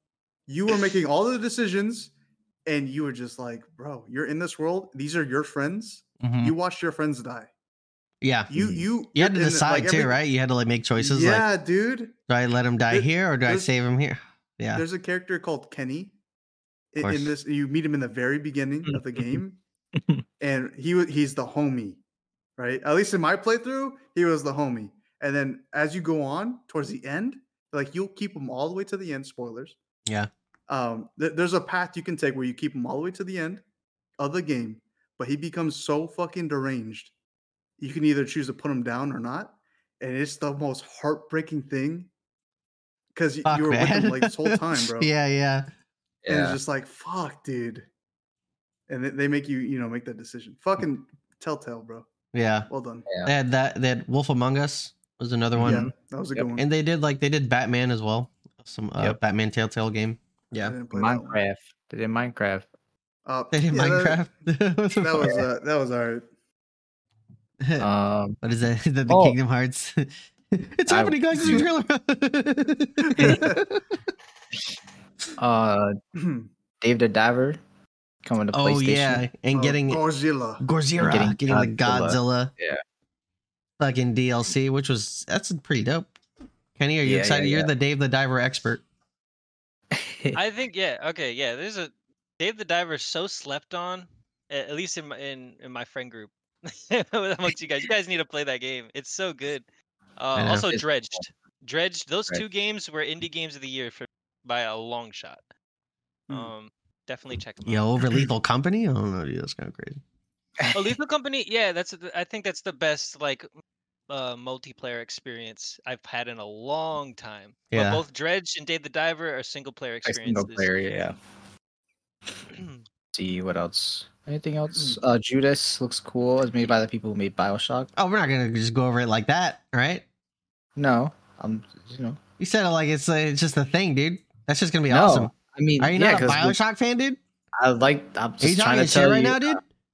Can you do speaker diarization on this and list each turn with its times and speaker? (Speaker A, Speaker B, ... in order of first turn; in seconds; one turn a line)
Speaker A: 0.5-2.1
Speaker A: 2.6-7.5
Speaker B: 6.2-6.5
Speaker B: 8.2-8.6
Speaker A: 8.5-10.2
Speaker C: 8.6-8.8
Speaker B: 9.1-11.4
Speaker A: 11.0-12.2
Speaker B: 12.3-14.8
Speaker A: 12.9-13.7
Speaker A: 14.7-16.1
Speaker A: 16.9-19.6
Speaker B: 17.0-17.3
Speaker C: 18.9-19.4
Speaker C: 20.0-20.2
Speaker A: 20.4-22.0
Speaker A: 22.6-29.8
Speaker A: 30.7-33.6
Speaker A: 34.2-37.1
Speaker A: 37.8-42.1
Speaker A: 43.1-45.1
Speaker B: 43.4-45.6
Speaker C: 46.2-46.6
Speaker A: 46.3-47.9
Speaker A: 48.9-52.1
Speaker B: 52.3-52.7
Speaker A: 52.7-53.1
Speaker C: 53.1-53.3
Speaker B: 53.2-55.9
Speaker C: 55.5-56.5
Speaker A: 55.6-56.6
Speaker B: 56.6-60.8
Speaker A: 60.6-61.4
Speaker C: 60.9-62.7
Speaker A: 63.3-64.2
Speaker B: 63.5-65.4
Speaker A: 65.0-66.2
Speaker B: 67.6-67.9
Speaker C: 67.8-68.4
Speaker B: 68.4-73.8
Speaker C: 69.1-69.4
Speaker C: 70.9-71.7
Speaker A: 73.0-73.6
Speaker C: 75.4-75.9
Speaker A: 76.2-76.5
Speaker C: 76.8-77.6
Speaker C: 78.2-79.3
Speaker B: 78.5-80.0
Speaker A: 79.5-80.6
Speaker B: 80.6-82.5
Speaker C: 81.0-82.8
Speaker B: 83.8-86.1
Speaker B: 86.8-88.8
Speaker C: 87.0-87.7
Speaker C: 89.9-90.4
Speaker D: 90.3-99.6
Speaker D: 100.2-105.4
Speaker B: 100.4-100.7
Speaker C: 100.5-100.8
Speaker D: 106.3-108.0
Speaker B: 107.6-110.0
Speaker D: 110.7-113.5
Speaker D: 114.1-120.9
Speaker B: 117.7-118.0
Speaker C: 120.0-121.2
Speaker D: 122.5-122.8
Speaker C: 123.1-127.9
Speaker B: 128.0-130.0
Speaker C: 130.8-132.2
Speaker B: 132.4-137.2
Speaker C: 134.9-136.6
Speaker C: 137.6-139.6
Speaker B: 138.4-139.6